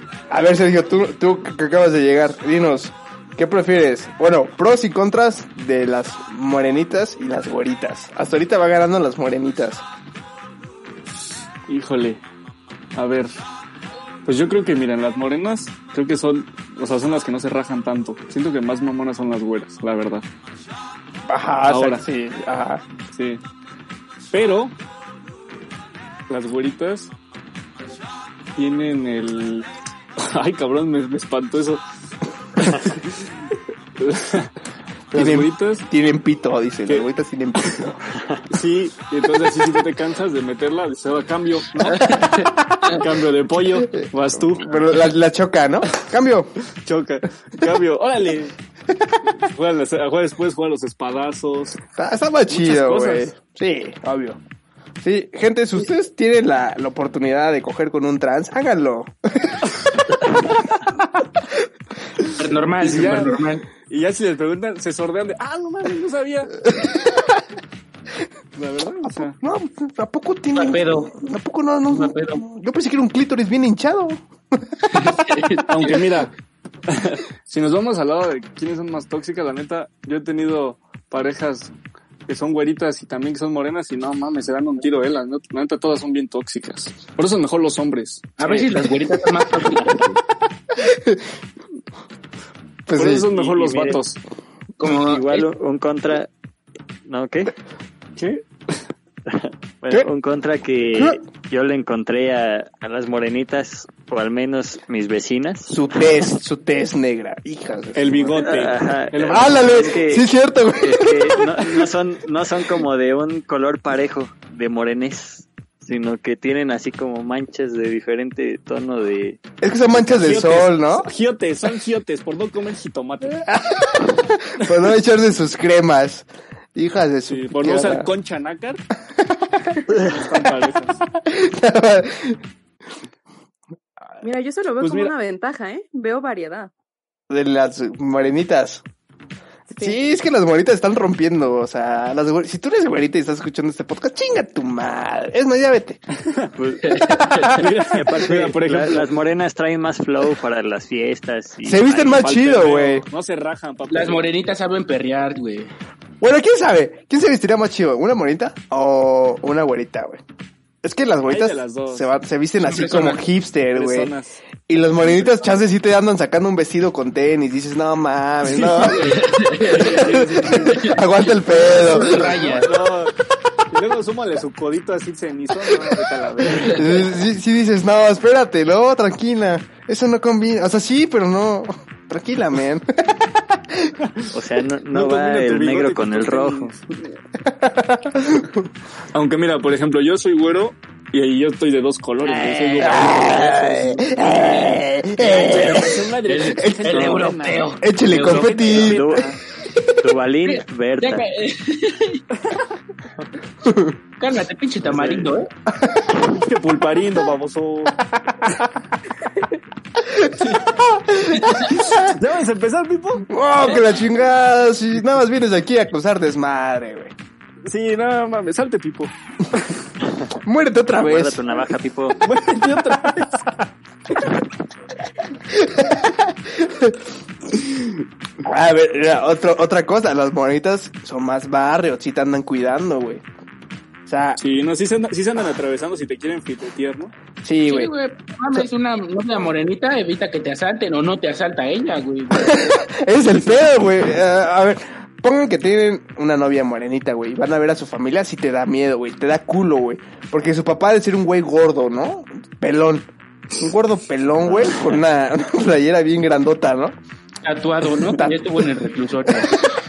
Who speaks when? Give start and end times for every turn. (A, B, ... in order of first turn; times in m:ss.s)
0:00.3-0:09.8 A
0:11.7-0:12.2 B
0:13.0-0:13.3 B
0:14.2-0:20.3 B
0:21.3-0:22.8 A
0:21.7-0:22.0 B
0:23.1-0:23.4 B
0:24.3-0:24.8 B
0:26.3-0:27.1 B
0:28.6-0:29.7 B
0:30.2-0:31.8 B
0:32.6-0:33.3 B
0:34.0-0:34.5 B
0:35.1-0:35.9 B
0:35.1-0:38.0 A
0:38.5-0:42.2 B
0:41.9-0:43.0 C
0:42.0-0:42.9 A
0:42.9-0:45.1 B
0:43.9-0:46.5 A
0:46.8-0:48.5 B
0:49.4-0:51.8 B
0:52.0-0:54.4 A
0:52.5-0:53.3 B
0:55.0-1:00.3 A
1:02.4-1:03.6 C
1:02.8-1:06.6 B
1:06.7-1:07.2 A
1:08.6-1:09.4 B
1:09.1-1:14.2 A
1:10.6-1:11.2 C
1:11.9-1:12.4 C
1:14.8-1:15.2 A
1:14.9-1:16.1 C
1:15.7-1:16.3 B
1:16.9-1:21.7 B
1:22.3-1:28.8 B
1:28.4-1:30.2 C
1:30.8-1:31.3 A
1:32.9-1:33.3 A
1:33.0-1:34.2 B
1:33.3-1:34.0 D
1:34.8-1:35.5 C
1:34.8-1:36.3 D
1:37.0-1:37.5 D
1:38.2-1:38.4 B
1:39.3-1:45.8 D
1:45.7-1:48.4 A
1:48.0-1:50.0 B
1:48.4-1:50.3 D
1:49.3-1:51.9 A
1:50.8-1:59.4 D
1:59.6-2:01.1 A
2:00.0-2:03.4 B
2:03.5-2:08.1 A
2:07.3-2:08.8 B
2:09.3-2:10.4 A
2:09.9-2:11.0 B
2:11.2-2:12.4 A
2:14.2-2:16.7 E
2:14.8-2:15.1 B
2:17.3-2:18.8 A
2:19.7-2:20.0 E
2:19.8-2:26.0 A
2:26.6-2:27.0 D
2:26.8-2:27.6 C
2:27.6-2:29.1 B
2:27.9-2:32.3 D
2:31.6-2:33.1 A
2:32.2-2:34.3 B
2:33.9-2:35.7 C
2:36.2-2:40.2 A
2:40.8-2:44.1 A
2:41.3-2:42.1 B
2:42.6-2:43.2 C
2:43.7-2:44.4 B
2:44.7-2:52.3 A
2:45.0-2:45.6 B
2:48.4-2:53.1 B
2:49.0-2:50.1 C
2:51.6-2:52.7 C
2:53.7-2:57.0 B
2:56.6-3:03.9 A
3:04.0-3:04.3 B
3:04.3-3:06.7 D
3:04.9-3:07.1 B
3:07.5-3:08.6 A
3:09.1-3:14.6 B
3:12.5-3:13.4 D
3:12.8-3:16.0 A
3:15.2-3:19.3 B
3:16.3-3:18.7 C
3:16.6-3:17.3 A
3:17.8-3:19.0 A
3:18.7-3:19.4 D
3:20.0-3:21.3 D
3:20.5-3:22.2 C
3:23.6-3:24.0 A
3:24.2-3:25.5 C
3:24.8-3:25.4 B
3:25.8-3:26.1 A
3:26.2-3:28.0 B
3:28.1-3:28.6 A
3:30.0-3:32.1 A
3:31.4-3:31.7 C
3:32.0-3:33.3 B
3:33.3-3:37.2 A
3:37.7-3:39.8 B
3:40.4-3:41.4 A
3:41.0-3:42.2 D
3:42.2-3:43.5 B
3:45.5-3:47.0 A
3:48.4-3:53.2 A
3:54.1-3:54.4 A
3:54.4-3:57.1 B
3:57.4-3:57.9 A
3:57.7-4:02.5 C
4:02.4-4:17.0 A
4:17.4-4:19.5 C